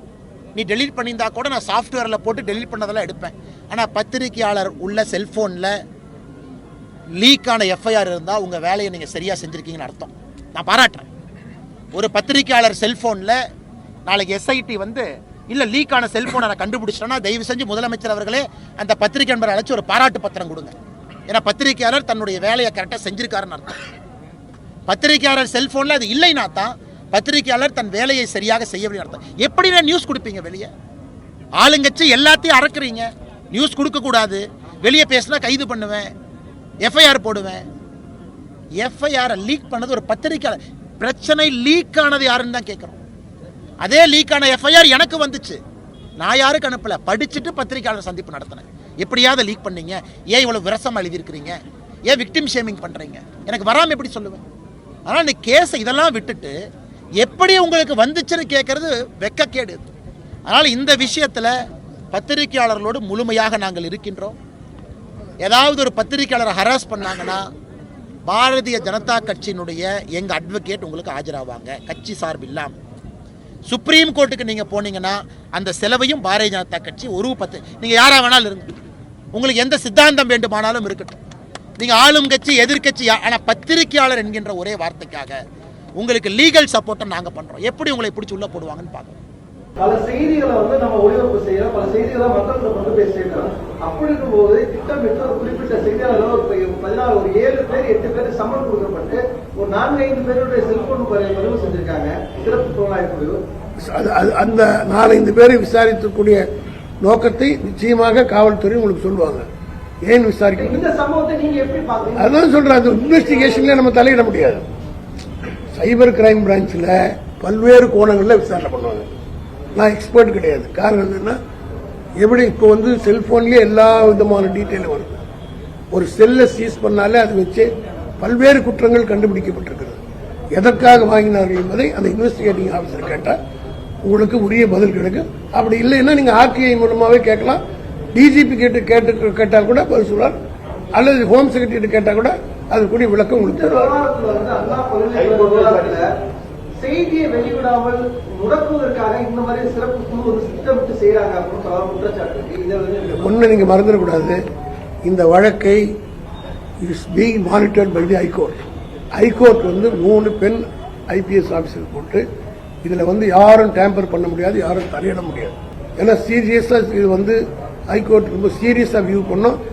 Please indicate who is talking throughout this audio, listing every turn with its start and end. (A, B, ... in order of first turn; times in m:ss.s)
0:00.5-0:05.7 A
0:07.2-0:11.1 A
0:11.9-0:13.4 A
0:14.1-0:20.7 A
0:21.3-0:23.8 A
0:24.9-0:30.7 A
0:31.6-0:36.1 A
0:36.8-0:37.6 A
0:38.8-0:43.0 A
0:43.8-0:45.6 A
0:46.2-0:51.6 A
0:52.1-0:54.4 A
0:55.0-0:56.5 A
0:57.2-0:59.8 A
1:00.5-1:01.5 A
1:02.1-1:04.3 A
1:05.4-1:07.4 A
1:08.3-1:12.7 A
1:13.7-1:18.7 A
1:19.3-1:21.2 A
1:21.8-1:25.4 A
1:26.0-1:29.2 A
1:29.8-1:43.4 B
1:43.8-1:46.4 C
1:47.0-1:49.4 C
1:50.1-1:50.8 C
1:50.6-1:53.7 B
1:52.2-1:54.6 C
1:55.7-1:59.1 C
1:59.8-2:01.4 C
2:02.2-2:05.2 C
2:05.9-2:07.7 C
2:08.2-2:10.0 C
2:10.5-2:13.3 C
2:14.0-2:17.6 C
2:18.1-2:20.4 C
2:20.9-2:23.9 C
2:23.4-2:26.1 B
2:26.8-2:33.3 B
2:33.1-2:34.4 C
2:35.0-2:35.8 C
2:36.8-2:38.6 C
2:39.2-2:42.2 C
2:42.8-2:47.4 C
2:47.9-2:49.6 C